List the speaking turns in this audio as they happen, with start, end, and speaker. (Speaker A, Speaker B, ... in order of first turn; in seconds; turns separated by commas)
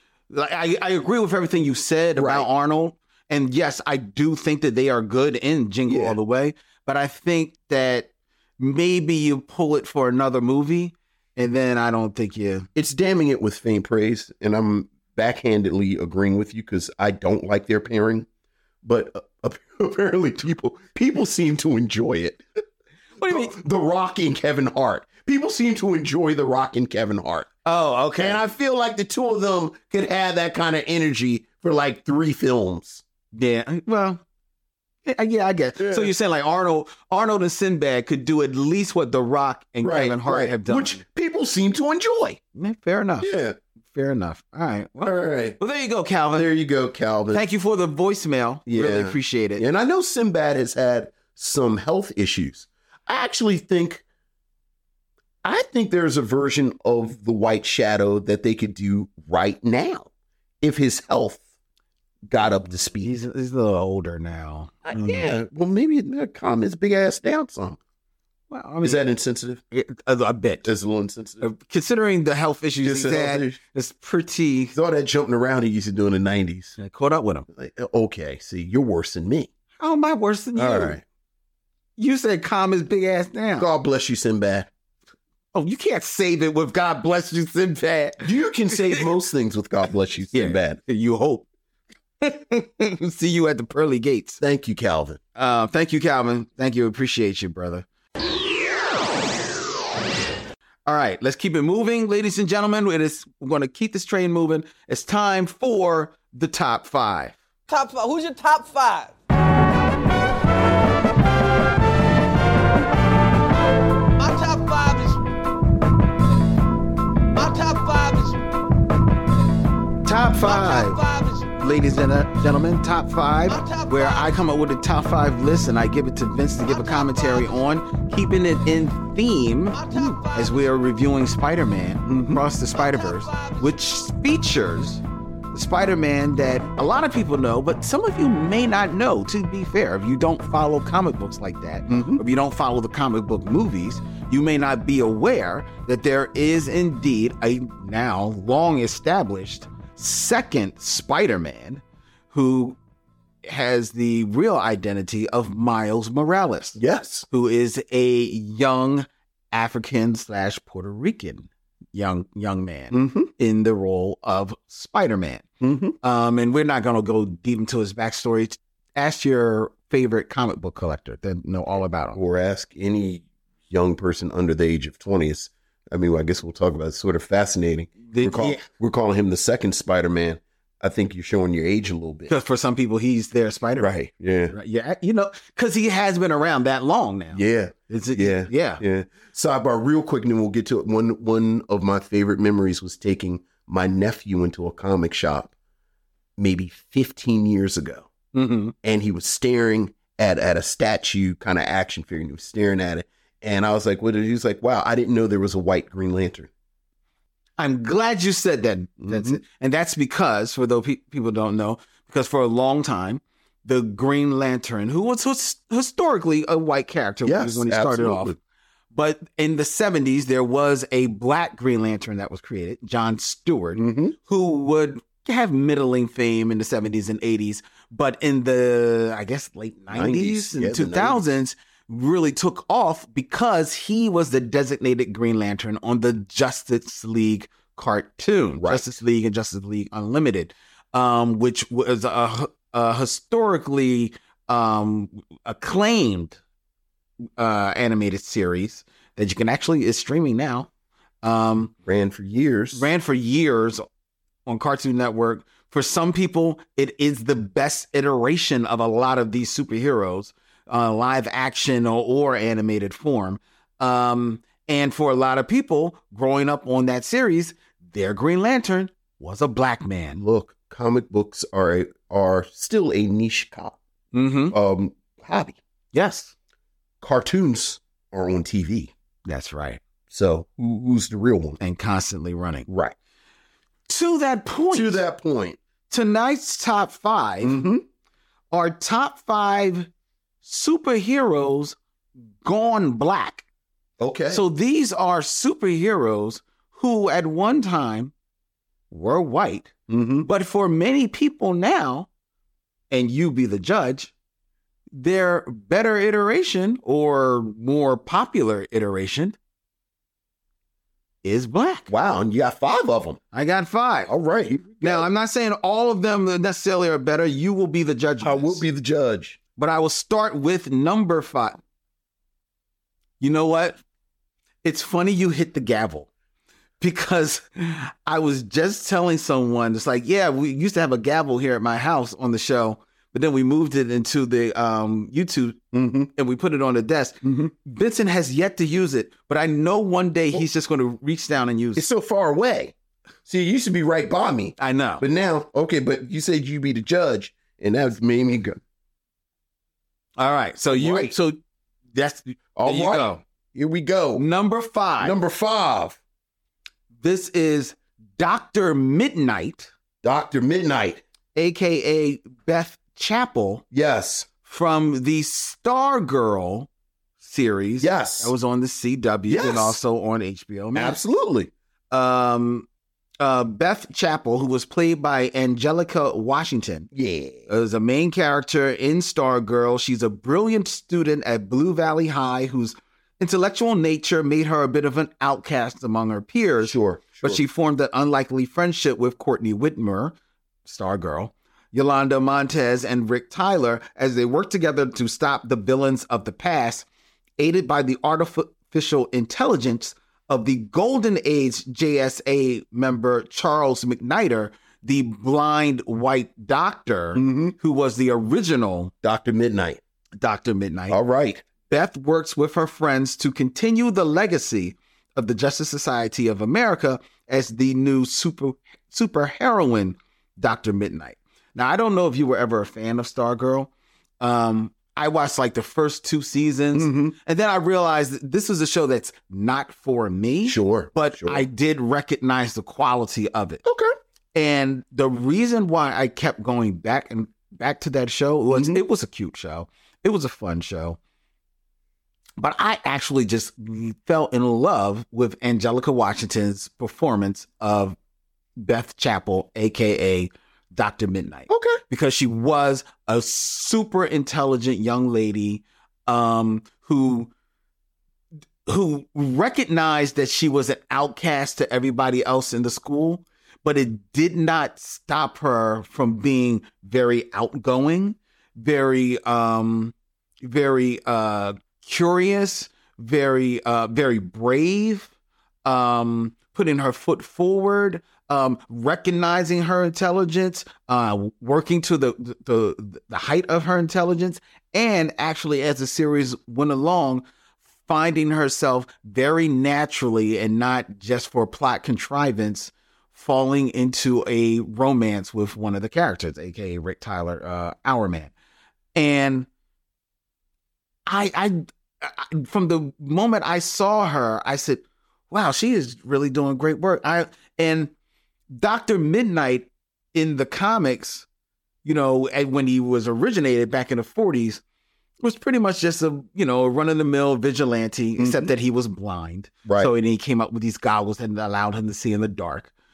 Speaker A: 0.3-12.7, Speaker B: 2.2-2.5, Speaker B: 5.9-6.2, Speaker B: 12.8-18.3, Speaker B: 18.8-22.4, Speaker A: 23.2-23.5, Speaker B: 23.2-27.5, Speaker A: 27.6-28.4, Speaker B: 28.2-33.0, Speaker A: 33.3-34.2, Speaker A: 35.1-41.0, Speaker B: 35.8-36.1, Speaker B: 39.8-42.4, Speaker A: 42.5-43.3, Speaker B: 43.2-43.6, Speaker A: 43.9-46.5, Speaker B: 45.0-45.6, Speaker B: 46.3-47.5, Speaker A: 47.3-49.6, Speaker B: 48.7-54.0, Speaker B: 55.4-60.1, Speaker B: 60.6-61.4, Speaker B: 62.3-63.1, Speaker A: 63.0-65.3, Speaker B: 64.9-67.8, Speaker A: 68.5-69.0, Speaker B: 68.8-69.6, Speaker A: 69.7-70.7, Speaker B: 70.6-71.5, Speaker A: 71.4-74.8, Speaker B: 72.8-73.6, Speaker B: 74.7-76.8, Speaker A: 76.8-77.5, Speaker B: 77.5-79.5, Speaker A: 79.8-81.0, Speaker B: 80.6-81.0, Speaker A: 82.0-83.7, Speaker B: 83.6-84.7, Speaker A: 85.5-89.1, Speaker B: 88.2-90.8, Speaker A: 90.3-91.5, Speaker A: 92.2-94.4, Speaker B: 94.4-95.2, Speaker A: 95.4-97.8, Speaker A: 100.9-107.4, Speaker C: 107.7-109.1, Speaker C: 114.2-115.2, Speaker C: 117.3-118.4, Speaker A: 120.0-121.0, Speaker C: 120.4-121.5, Speaker A: 121.6-152.8, Speaker C: 123.5-124.4, Speaker C: 126.7-127.6, Speaker C: 129.7-130.7, Speaker B: 132.1-132.4, Speaker C: 132.8-133.7, Speaker B: 141.9-142.2, Speaker A: 153.4-156.8, Speaker B: 156.8-157.3, Speaker A: 157.3-165.5, Speaker B: 162.9-163.3, Speaker B: 165.6-166.0, Speaker A: 166.0-172.2, Speaker B: 172.1-182.3, Speaker A: 178.1-178.7, Speaker A: 182.3-183.9, Speaker B: 183.8-184.6, Speaker A: 184.5-188.8, Speaker B: 187.3-195.5, Speaker B: 196.4-198.1, Speaker A: 198.3-198.7, Speaker B: 198.8-206.5, Speaker A: 207.6-218.3, Speaker B: 209.0-209.4, Speaker B: 217.2-218.4, Speaker A: 218.9-246.4, Speaker B: 223.8-224.2, Speaker B: 229.9-231.4, Speaker B: 238.6-239.0, Speaker A: 247.4-250.7, Speaker A: 251.2-251.7, Speaker B: 251.9-252.9, Speaker A: 252.7-253.8, Speaker A: 254.5-270.2, Speaker B: 270.2-273.8, Speaker A: 274.1-274.6, Speaker B: 274.5-275.6, Speaker A: 275.9-276.3, Speaker B: 277.0-278.9, Speaker A: 279.3-279.8, Speaker B: 280.1-281.6, Speaker A: 281.6-282.7, Speaker B: 282.7-283.0, Speaker A: 283.9-285.0, Speaker B: 284.7-285.6, Speaker A: 285.9-287.6, Speaker B: 287.4-287.8, Speaker A: 288.5-289.9, Speaker A: 290.4-291.8, Speaker A: 292.4-293.4, Speaker B: 294.0-294.4, Speaker A: 294.3-298.1, Speaker A: 298.9-299.7, Speaker B: 299.9-300.3, Speaker A: 300.2-302.1, Speaker A: 302.9-304.1, Speaker A: 304.9-309.4, Speaker A: 311.2-311.9, Speaker B: 311.9-313.2, Speaker A: 313.3-314.1, Speaker B: 314.1-315.1, Speaker A: 314.8-318.7, Speaker B: 318.2-319.4, Speaker A: 319.6-321.6, Speaker A: 323.2-323.8, Speaker A: 324.6-326.1, Speaker A: 326.8-335.6, Speaker B: 335.7-336.1, Speaker A: 336.2-341.9, Speaker B: 337.2-337.5, Speaker B: 341.8-342.7, Speaker B: 343.3-348.6, Speaker A: 344.6-345.0, Speaker A: 350.2-351.4, Speaker B: 350.7-351.1, Speaker A: 351.9-353.2, Speaker B: 352.6-354.2, Speaker A: 354.1-355.2, Speaker B: 355.0-356.0, Speaker A: 357.0-359.7, Speaker B: 360.0-361.0, Speaker A: 361.4-363.6, Speaker B: 363.7-364.3, Speaker A: 364.4-366.7, Speaker A: 367.2-371.0, Speaker B: 367.8-368.3, Speaker B: 369.3-369.8, Speaker B: 370.8-371.5, Speaker A: 371.9-372.7, Speaker A: 373.2-376.9, Speaker B: 376.9-377.5, Speaker A: 377.5-390.1, Speaker B: 386.6-387.4, Speaker A: 390.7-396.9, Speaker A: 397.4-408.9, Speaker B: 407.1-407.6, Speaker B: 409.0-409.8, Speaker A: 410.2-411.0, Speaker B: 410.9-411.4, Speaker A: 411.7-433.6, Speaker B: 426.7-427.2, Speaker B: 430.4-431.5, Speaker B: 433.6-433.9, Speaker A: 434.4-441.0, Speaker B: 438.5-438.8, Speaker A: 442.4-448.0, Speaker A: 448.6-457.3, Speaker B: 451.5-451.8, Speaker A: 458.7-475.1, Speaker A: 475.6-487.2, Speaker A: 487.9-498.3, Speaker A: 498.9-499.5, Speaker A: 501.1-507.9, Speaker A: 508.5-511.3, Speaker A: 511.9-514.6, Speaker A: 515.2-522.7, Speaker B: 518.2-518.5, Speaker B: 519.6-519.9